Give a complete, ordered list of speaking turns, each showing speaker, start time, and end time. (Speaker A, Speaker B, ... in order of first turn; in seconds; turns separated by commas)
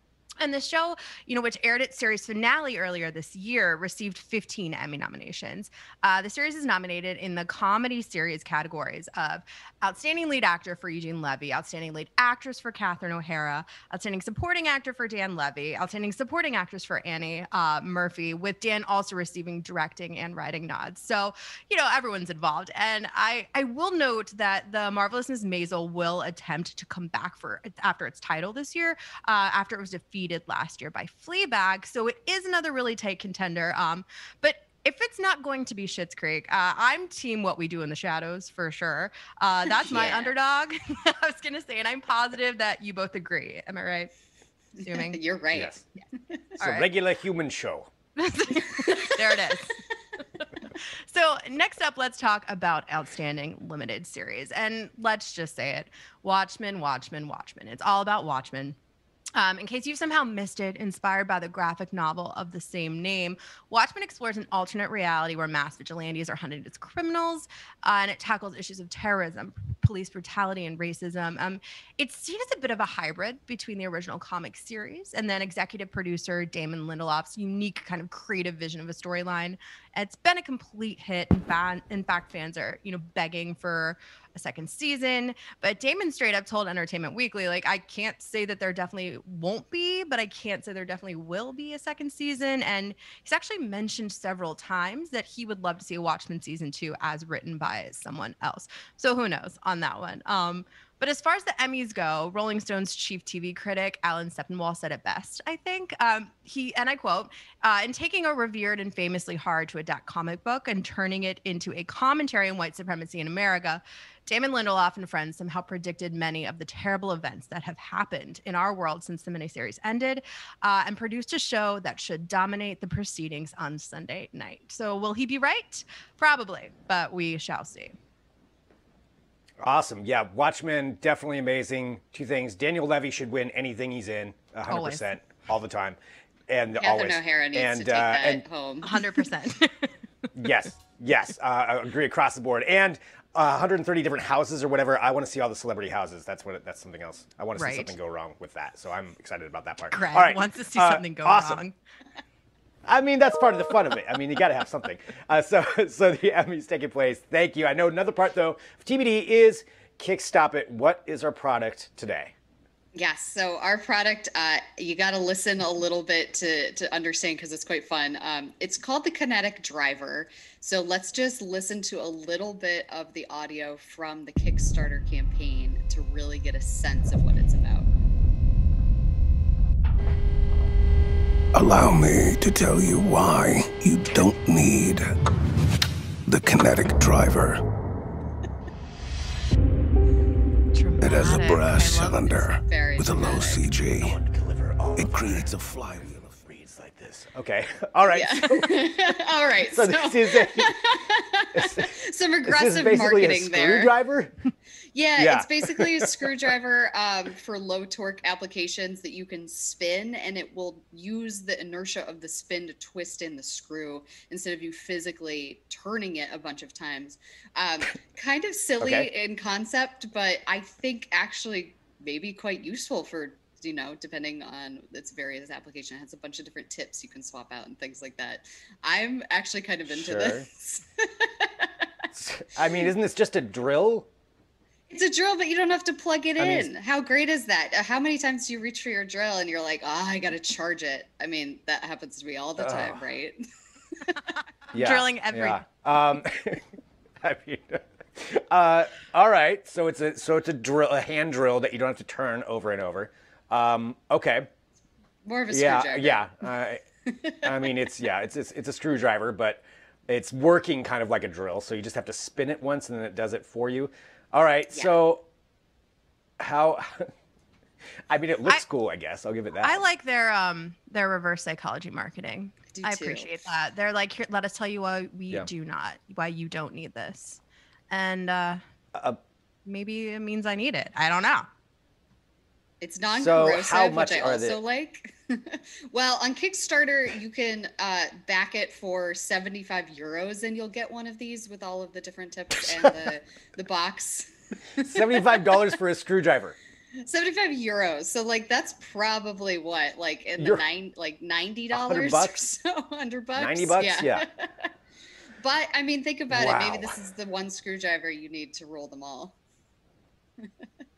Speaker A: 0.4-44.1, Speaker B: 39.8-40.3, Speaker C: 39.9-40.2, Speaker B: 44.8-46.5, Speaker A: 44.9-45.2, Speaker C: 45.5-45.9, Speaker C: 46.6-47.9, Speaker A: 46.6-46.9, Speaker A: 48.2-49.8, Speaker B: 48.8-49.2, Speaker A: 50.4-58.8, Speaker A: 59.4-128.0, Speaker C: 129.6-136.0, Speaker A: 134.7-135.1, Speaker C: 136.5-138.4, Speaker B: 136.8-139.0, Speaker A: 138.8-139.9, Speaker C: 140.4-151.6, Speaker A: 147.6-147.9, Speaker A: 149.9-151.8, Speaker C: 152.9-162.3, Speaker B: 162.9-177.9, Speaker D: 181.5-185.1, Speaker D: 186.3-187.6, Speaker A: 190.7-192.5, Speaker D: 191.0-194.2, Speaker B: 192.6-193.6, Speaker C: 194.0-198.7, Speaker D: 195.0-196.1, Speaker B: 198.1-203.9, Speaker C: 199.6-200.7, Speaker C: 201.5-201.9, Speaker C: 202.4-204.4, Speaker B: 204.9-231.9, Speaker C: 205.2-206.3, Speaker C: 218.8-219.1, Speaker C: 229.9-230.5, Speaker C: 232.1-234.1, Speaker B: 234.9-243.4, Speaker C: 236.4-236.7, Speaker C: 242.6-243.0, Speaker A: 244.7-245.7, Speaker C: 244.7-246.6, Speaker C: 247.2-254.5, Speaker B: 255.2-256.2, Speaker C: 255.5-256.8, Speaker B: 257.1-257.5, Speaker C: 257.4-265.2, Speaker C: 266.4-267.1, Speaker C: 268.1-269.8, Speaker A: 269.6-277.4, Speaker B: 272.7-273.3, Speaker A: 277.9-278.6, Speaker A: 279.7-281.5, Speaker B: 282.8-295.4, Speaker C: 283.2-284.6, Speaker C: 292.7-292.9, Speaker C: 294.8-296.6, Speaker B: 297.0-304.7, Speaker C: 301.7-302.4, Speaker C: 303.4-304.2, Speaker B: 305.4-309.4, Speaker C: 306.3-307.0